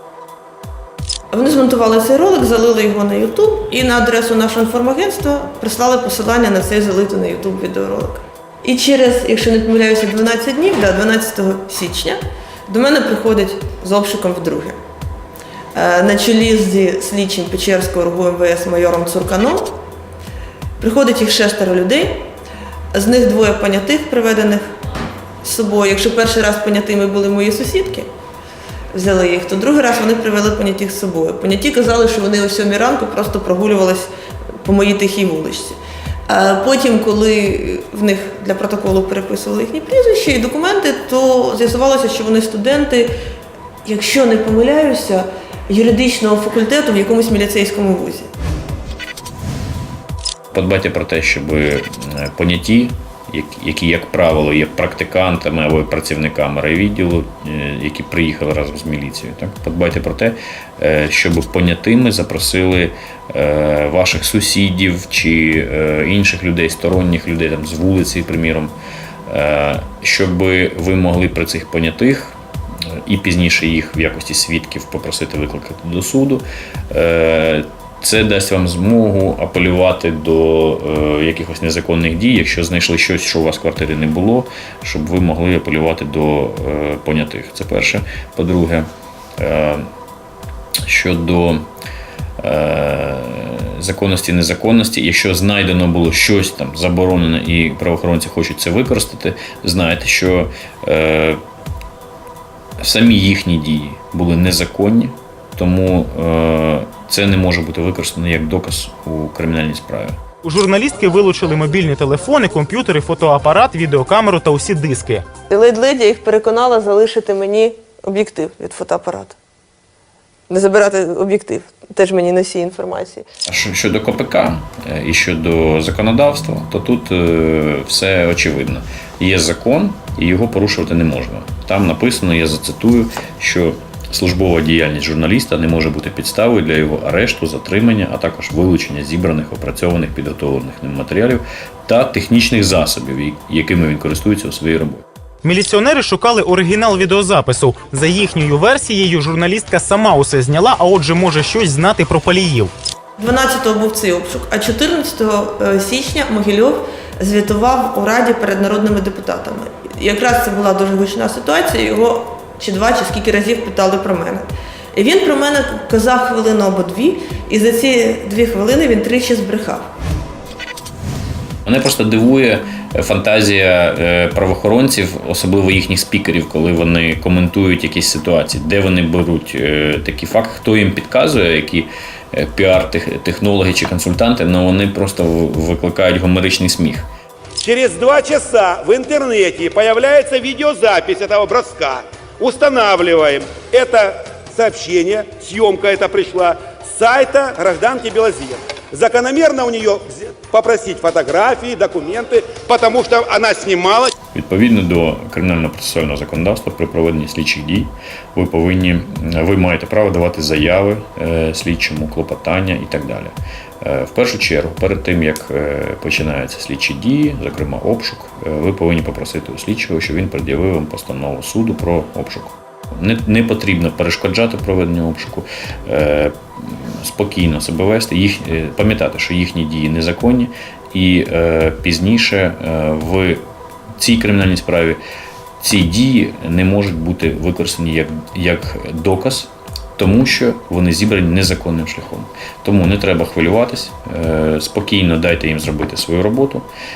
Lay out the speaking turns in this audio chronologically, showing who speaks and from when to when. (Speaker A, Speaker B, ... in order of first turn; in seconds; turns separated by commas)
Speaker A: 1.3-14.8, Speaker A: 15.7-19.8, Speaker A: 20.8-22.3, Speaker A: 22.9-24.7, Speaker A: 25.4-28.1, Speaker A: 28.9-34.1, Speaker A: 34.6-43.1, Speaker A: 43.8-48.3, Speaker B: 50.5-68.7, Speaker B: 69.3-72.4, Speaker B: 73.0-88.9, Speaker B: 89.4-89.8, Speaker B: 90.9-91.6, Speaker B: 92.4-101.4, Speaker B: 102.8-110.2, Speaker C: 110.4-115.3, Speaker A: 115.5-119.4, Speaker A: 120.5-123.3, Speaker B: 123.5-145.0, Speaker C: 145.4-152.7, Speaker A: 153.2-169.9, Speaker B: 171.7-187.1, Speaker D: 187.6-204.1, Speaker B: 204.3-233.4, Speaker B: 234.0-235.0, Speaker B: 235.6-246.7